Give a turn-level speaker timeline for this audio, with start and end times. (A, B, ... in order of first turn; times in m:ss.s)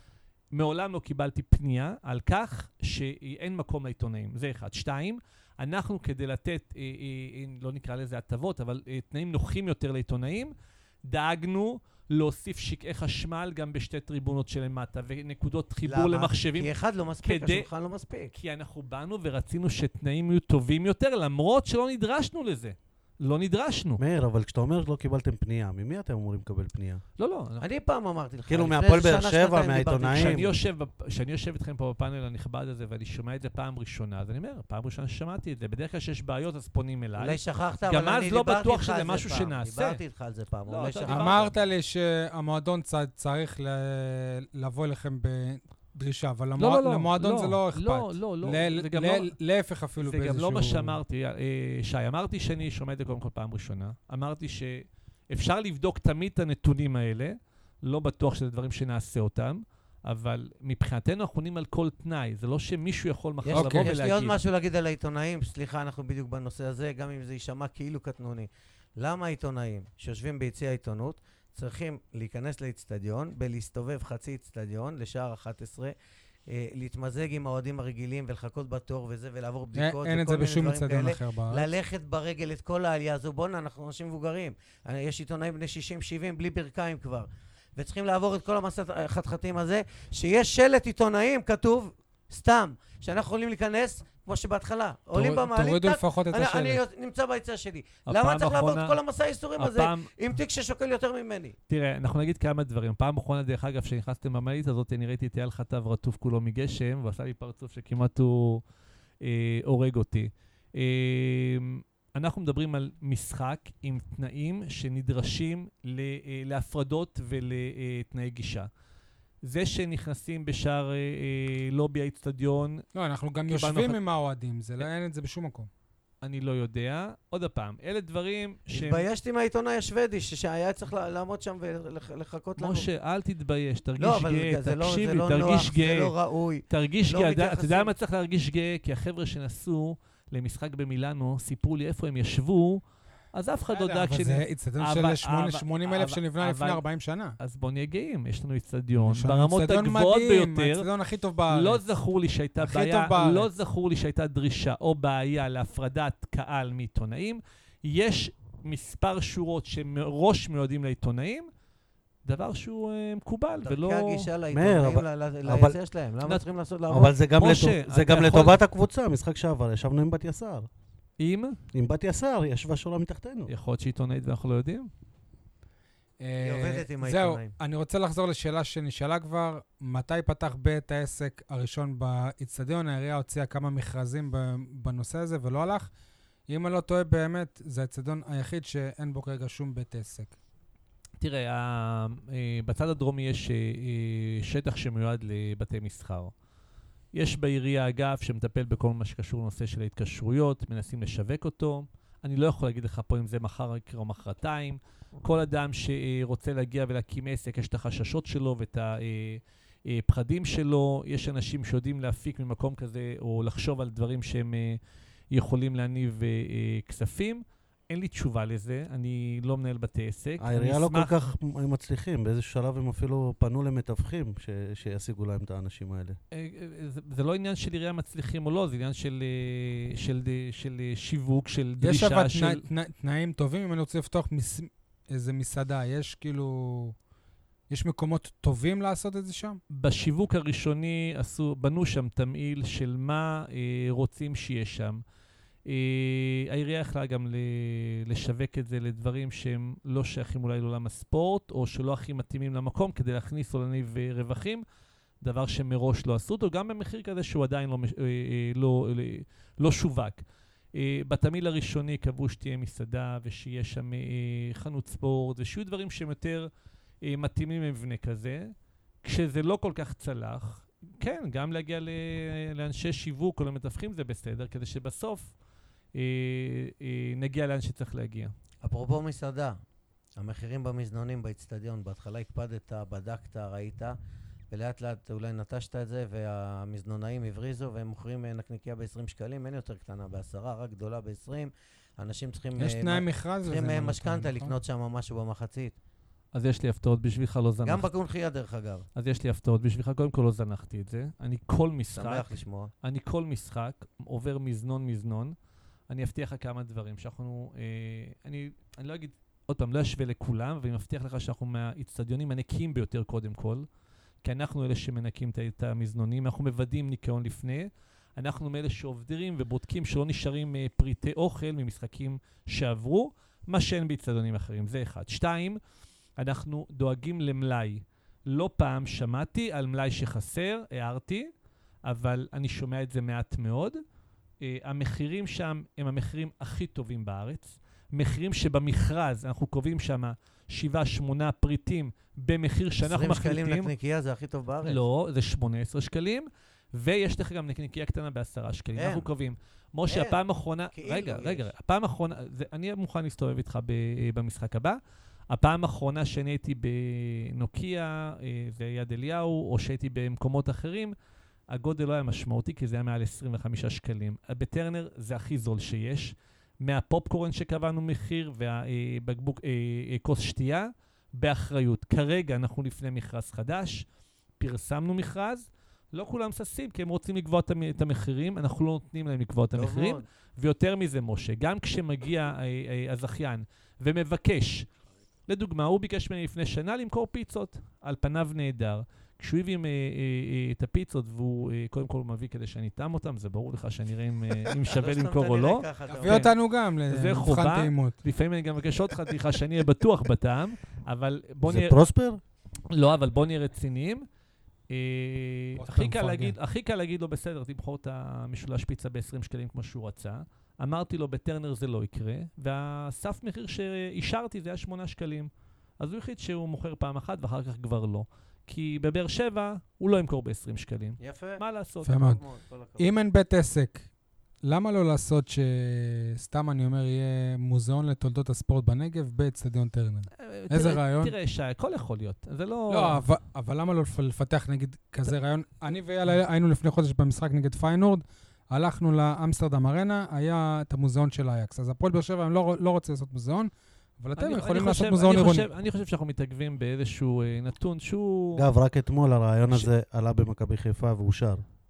0:00.5-0:10.5 A
0:11.0-0:16.7 A
0:15.8-0:18.3 B
0:17.2-0:17.7 A
0:18.3-0:24.0 A
0:24.0-0:27.0 C
0:27.2-0:27.6 A
0:27.6-0:30.4 B
0:28.5-0:30.5 C
0:30.1-0:40.0 A
0:37.2-0:41.5 B
0:40.7-0:41.5 A
0:41.1-0:51.0 D
0:46.6-0:49.3 A
0:50.0-1:04.4 A
1:03.4-1:15.9 B
1:03.5-1:03.9 D
1:16.5-1:41.6 B
1:19.8-1:21.7 D
1:35.1-1:36.8 D
1:38.1-1:39.0 A
1:39.6-1:40.1 A
1:41.7-1:48.6 A
1:49.2-1:58.7 A
1:59.4-2:02.8 A
2:02.9-2:05.7 D
2:03.5-2:04.0 A
2:06.2-2:09.0 A
2:08.7-2:12.9 B
2:12.6-2:16.1 A
2:14.0-2:17.9 B
2:16.7-2:22.8 A
2:23.3-2:26.8 A
2:23.9-2:27.4 D
2:27.4-2:30.9 A
2:29.0-2:31.8 D
2:31.5-2:41.5 A
2:32.6-2:33.5 D
2:42.2-2:44.3 A
2:43.6-2:47.2 B
2:44.5-2:45.8 C
2:46.9-2:50.7 C
2:47.4-2:48.6 A
2:51.2-2:51.6 A
2:51.7-2:53.5 C
2:53.5-2:54.9 A
2:56.2-3:05.9 D
2:56.4-2:57.5 B
3:06.5-3:10.3 D
3:11.2-3:16.3 A
3:17.1-3:34.8 A
3:35.3-3:41.2 A
3:40.4-3:46.2 C
3:46.3-3:52.6 A
3:51.8-3:57.0 D
3:57.7-3:59.6 D
3:59.7-4:05.0 A
4:05.6-4:14.6 A
4:15.2-4:20.2 A
4:20.7-4:26.5 A
4:27.0-4:28.5 A
4:29.0-4:35.3 A
4:35.9-4:38.3 A
4:38.6-4:39.6 B
4:40.2-4:44.0 B
4:44.5-4:55.8 B
4:52.6-4:54.6 D
4:56.3-4:57.9 A
4:57.6-4:58.9 B
4:59.0-5:02.3 A
5:01.9-5:02.7 B
5:02.8-5:05.3 A
5:05.9-5:13.6 A
5:14.2-5:25.6 A
5:26.2-5:31.3 A
5:31.8-5:33.8 A
5:34.4-5:43.7 A
5:42.8-5:44.8 B
5:44.6-5:54.8 A
5:48.8-5:49.1 B
5:49.9-5:50.2 B
5:50.7-5:51.5 B
5:55.3-6:00.9 A
6:01.5-6:13.8 A
6:14.4-6:24.7 A
6:19.5-6:20.0 B
6:25.3-6:36.3 A
6:34.6-6:36.3 B
6:35.9-6:38.0 D
6:36.9-6:41.8 A
6:41.4-6:42.2 C
6:42.7-6:44.0 A
6:44.7-7:02.0 A
6:45.6-6:46.4 D
7:01.0-7:02.9 B
7:01.8-7:02.2 D
7:02.8-7:03.9 D
7:04.4-7:11.1 D
7:10.2-7:13.0 A
7:12.7-7:25.5 D
7:24.2-7:28.4 A
7:28.3-7:31.4 C